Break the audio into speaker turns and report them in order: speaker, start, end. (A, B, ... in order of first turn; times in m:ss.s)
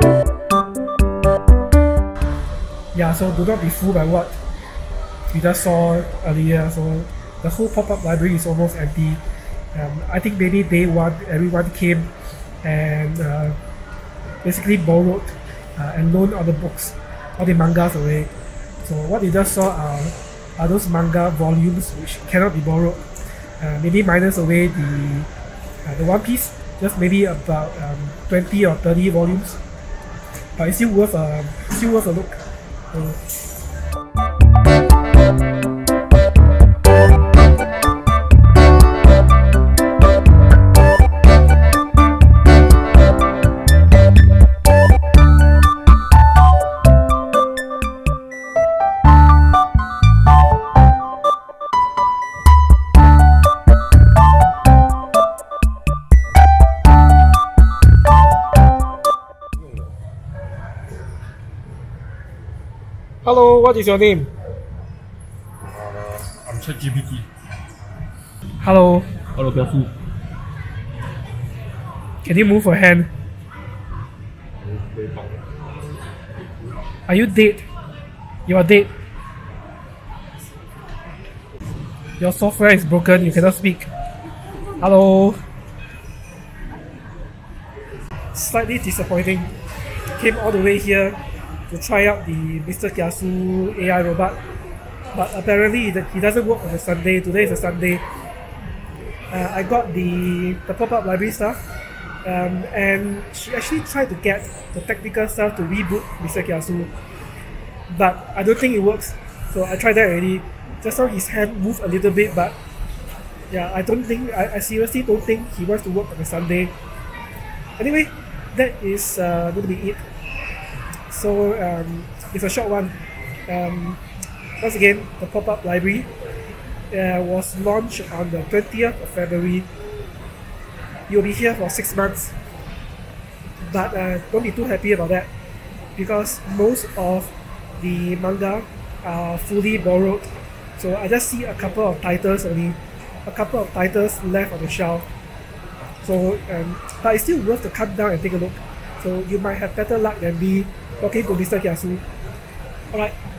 0:02.9-0:04.4 A
0:05.3-0:09.2 A
0:09.7-0:13.6 A
0:14.4-0:18.3 A
0:18.8-0:25.3 A
0:25.8-0:29.6 A
0:30.6-0:33.4 A
1:03.2-1:04.3 A
1:05.8-1:07.3 B
1:08.6-1:09.3 A
1:09.4-1:09.9 B
1:12.2-1:13.1 A
1:14.9-1:15.3 B
1:17.1-1:17.7 A
1:18.5-1:18.9 A
1:22.2-1:23.9 A
1:24.8-1:25.4 A
1:28.3-1:34.4 A
1:35.1-1:38.0 A
1:39.3-1:41.6 A
1:42.2-1:46.9 A
1:47.9-1:52.6 A
1:53.5-1:56.7 A
1:57.8-2:00.0 A
2:00.9-2:04.0 A
2:04.6-2:06.1 A
2:06.9-2:09.7 A
2:11.1-2:12.4 A
2:13.6-2:15.3 A
2:16.0-2:25.1 A
2:26.0-2:32.0 A